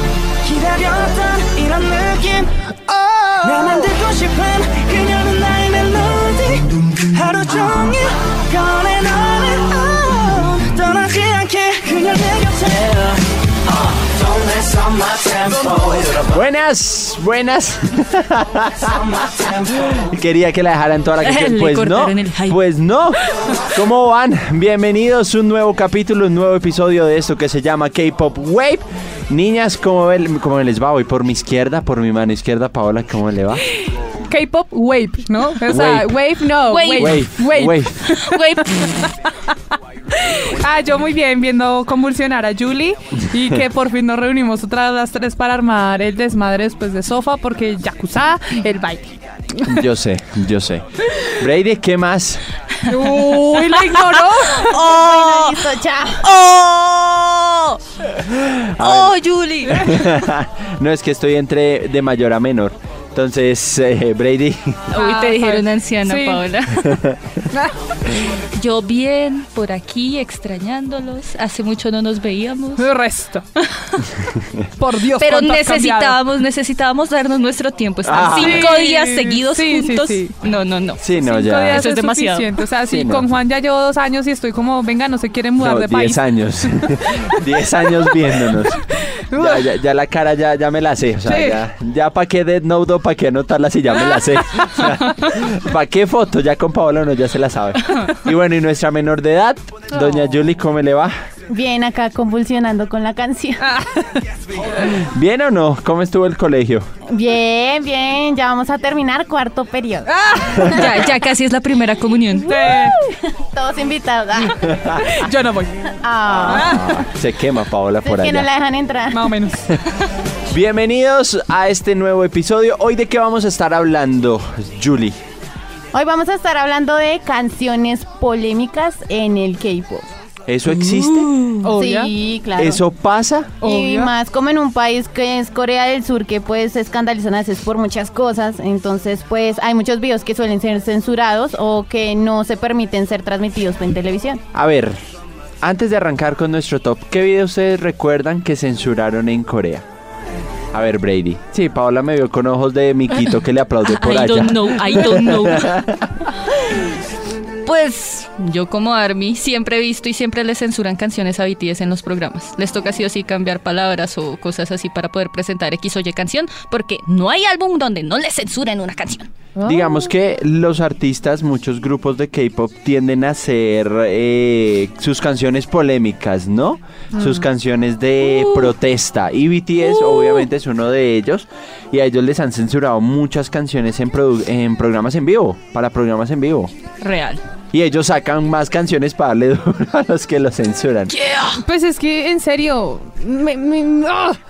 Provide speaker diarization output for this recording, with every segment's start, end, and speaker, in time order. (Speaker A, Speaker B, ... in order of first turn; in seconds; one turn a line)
Speaker A: 0.4-2.5
Speaker A: 3.4-13.1
Speaker A: 14.3-16.1
Speaker B: 16.3-19.1
Speaker B: 19.7-23.2
Speaker C: 21.2-22.6
Speaker B: 23.7-33.6
Speaker D: 34.2-39.1
Speaker B: 35.7-36.1
Speaker C: 36.7-37.2
Speaker B: 36.9-38.0
Speaker C: 38.1-39.0
Speaker D: 40.1-49.8
Speaker B: 49.7-52.4
Speaker D: 52.8-54.9
Speaker C: 53.0-55.6
Speaker E: 54.5-56.2
Speaker C: 56.2-57.8
Speaker B: 58.2-59.1
Speaker C: 58.8-60.0
Speaker B: 59.7-64.9
Speaker C: 64.9-67.0
Speaker D: 64.9-66.5
Speaker B: 66.9-67.4
Speaker D: 67.5-67.8
Speaker C: 68.5-72.8
Speaker D: 72.8-73.6
Speaker D: 74.8-76.2
Speaker C: 75.2-81.2
Speaker B: 78.0-78.8
Speaker D: 78.2-80.3
Speaker B: 81.0-81.9
Speaker D: 81.1-86.7
Speaker C: 81.7-82.5
Speaker B: 82.8-83.3
Speaker B: 85.6-101.1
Speaker D: 88.0-89.6
Speaker D: 91.3-91.6
Speaker E: 101.5-103.7
Speaker D: 103.8-104.2
Speaker B: 104.8-106.9
Speaker E: 107.1-110.1
Speaker D: 110.1-110.8
Speaker B: 110.6-110.9
Speaker C: 110.7-112.5
Speaker D: 112.5-112.9
Speaker E: 112.5-114.9
Speaker D: 115.0-115.8
Speaker E: 116.0-116.8
Speaker B: 116.3-118.5
Speaker D: 116.5-116.9
Speaker E: 118.0-119.3
Speaker D: 119.1-119.7
Speaker B: 120.5-125.2
Speaker E: 125.9-130.1
Speaker B: 130.5-131.5
Speaker D: 131.6-132.1
Speaker E: 131.7-132.8
Speaker B: 132.6-133.6
Speaker D: 133.6-134.1
Speaker E: 133.6-144.4
Speaker B: 144.5-145.0
Speaker B: 145.6-149.8
Speaker B: 150.7-156.1
Speaker C: 153.8-155.8
Speaker C: 157.6-169.3
Speaker D: 169.6-170.0
Speaker B: 169.6-186.7
Speaker D: 177.1-177.4
Speaker C: 178.2-178.7
Speaker C: 180.0-180.4
Speaker C: 187.0-187.4
Speaker B: 187.7-191.1
Speaker C: 191.1-191.6
Speaker D: 191.6-194.4